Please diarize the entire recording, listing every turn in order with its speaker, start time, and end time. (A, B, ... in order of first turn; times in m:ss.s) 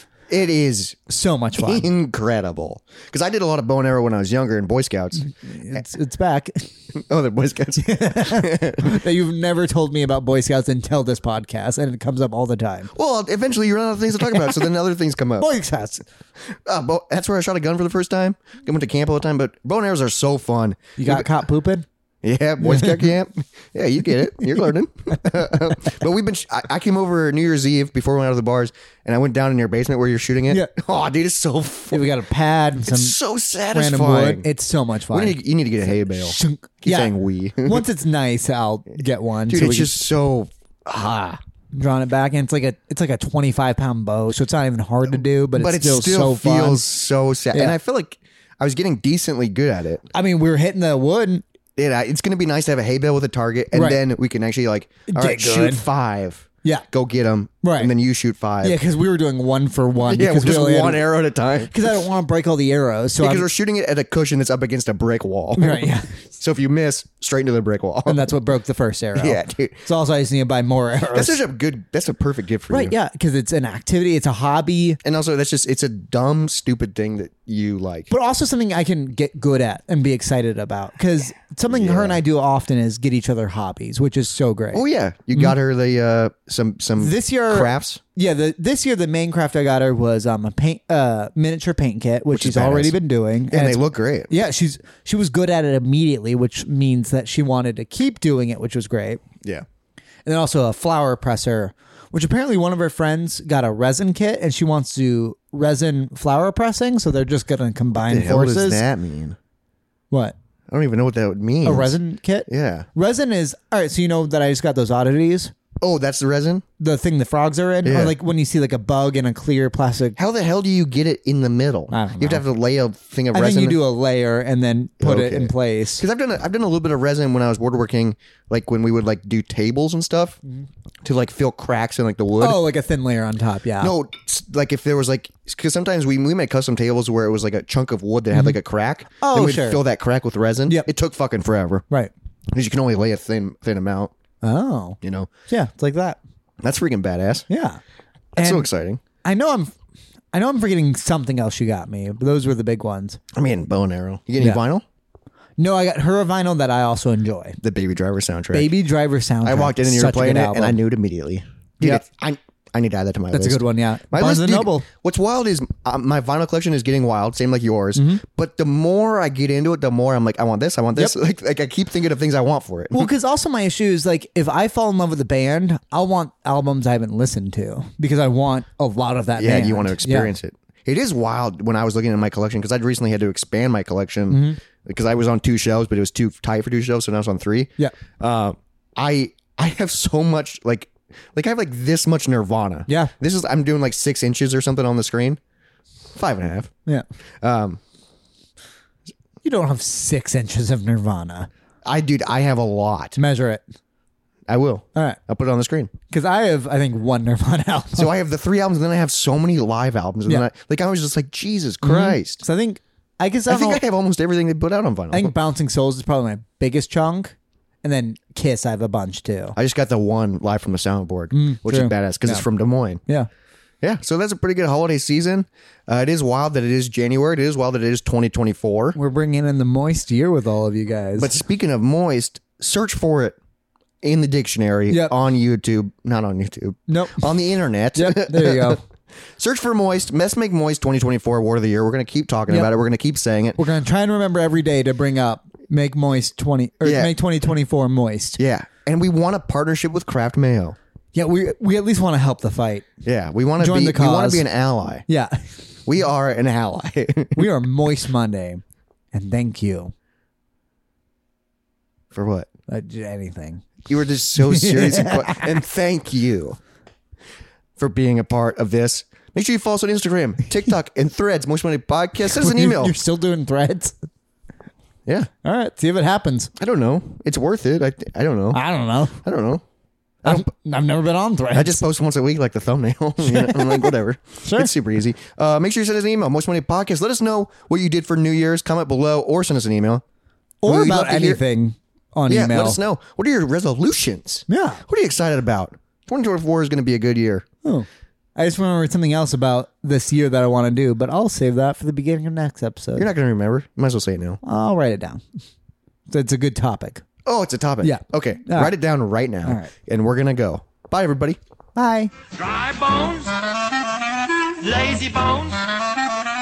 0:00.3-0:05.3 A
0:01.1-0:01.9 B
0:05.2-0:06.7 B
0:06.9-0:09.0 A
0:07.8-0:12.9 B
0:12.9-0:15.5 A
0:14.2-0:14.7 B
0:15.4-0:16.0 B
0:16.5-0:21.3 A
0:21.0-0:21.9 B
0:22.2-0:32.0 A
0:22.6-0:23.1 B
0:24.4-0:24.7 B
0:25.3-0:26.0 B
0:31.9-0:33.2 B
0:32.9-0:34.5 A
0:33.7-0:35.4 B
0:35.1-0:37.8 A
0:35.9-0:40.0 B
0:39.5-0:41.4 A
0:41.7-0:46.8 B
0:45.6-0:50.1 A
0:50.1-0:51.4 B
0:51.8-0:58.8 A
0:53.7-0:54.0 B
0:55.1-0:55.9 B
0:57.6-0:57.9 B
0:58.6-1:01.1 B
1:00.1-1:01.9 A
1:01.6-1:03.5 B
1:03.2-1:08.2 A
1:05.6-1:06.1 B
1:08.1-1:11.4 B
1:09.2-1:09.9 A
1:11.1-1:13.0 A
1:12.7-1:15.0 B
1:15.0-1:18.1 A
1:18.1-1:24.8 B
1:21.7-1:22.2 A
1:24.7-1:28.0 A
1:27.0-1:39.2 B
1:32.3-1:33.0 A
1:33.5-1:34.3 A
1:40.2-1:48.8 B
1:48.0-1:49.4 A
1:50.1-1:50.4 B
1:50.7-1:52.9 A
1:51.6-1:55.5 B
1:55.8-1:56.6 A
1:56.8-2:00.2 B
1:57.8-1:58.1 A
2:00.2-2:03.8 A
2:01.9-2:02.4 B
2:03.3-2:06.0 B
2:05.0-2:10.4 A
2:11.0-2:12.6 A
2:12.4-2:13.9 B
2:13.8-2:21.8 A
2:18.3-2:18.6 B
2:19.2-2:19.8 B
2:22.5-2:24.1 A
2:24.4-2:26.2 B
2:25.0-2:25.3 A
2:26.6-2:27.5 A
2:27.5-2:27.8 B
2:28.4-2:28.7 B
2:28.4-2:29.0 A
2:29.2-2:29.7 B
2:30.3-2:33.2 B
2:33.3-2:34.8 A
2:35.6-2:37.6 B
2:37.6-2:38.7 A
2:38.5-2:40.8 B
2:39.4-2:53.1 A
2:43.3-2:44.9 B
2:48.0-2:48.2 B
2:52.9-3:00.3 B
2:59.4-3:15.4 A
3:04.3-3:04.6 B
3:12.9-3:13.1 B
3:16.2-3:16.7 A
3:17.4-3:17.8 A
3:19.4-3:21.5 B
3:21.9-3:23.2 A
3:23.2-3:23.6 B
3:24.5-3:25.9 A
3:26.1-3:28.1 B
3:28.0-3:32.4 A
3:31.8-3:33.8 B
3:33.5-3:35.4 A
3:35.1-3:39.6 B
3:39.6-3:43.0 A
3:41.3-3:42.5 B
3:43.8-3:49.0 A
3:49.0-3:51.4 B
3:51.2-3:53.4 A
3:54.0-3:58.8 A
3:54.9-3:55.2 B
3:56.9-3:57.3 B
3:58.0-3:58.8 B
3:59.4-4:03.6 A
4:03.6-4:08.4 B
4:06.8-4:07.1 A
4:08.4-4:10.8 A
4:11.2-4:12.9 B
4:13.0-4:15.0 A
4:13.6-4:14.5 B
4:15.1-4:15.6 B
4:15.9-4:17.5 A
4:17.4-4:19.9 B
4:22.1-4:22.5 A
4:22.7-4:23.7 B
4:23.9-4:26.6 A
4:24.4-4:25.6 B
4:27.8-4:33.0 A
4:32.2-4:34.0 B
4:35.4-4:36.5 B
4:36.6-4:38.6 A
4:38.5-4:39.2 B
4:39.2-4:39.6 A
4:40.2-4:41.8 B
4:41.5-4:50.0 A
4:43.2-4:44.7 B
4:50.6-4:52.8 B
4:50.6-4:51.4 A
4:52.3-4:57.5 A
4:54.5-4:54.8 B
4:57.6-5:03.1 B
5:03.0-5:04.4 A
5:04.4-5:05.2 B
5:06.1-5:07.0 B
5:07.2-5:11.4 A
5:07.8-5:08.7 B
5:09.4-5:09.7 B
5:11.8-5:12.1 B
5:12.3-5:16.2 C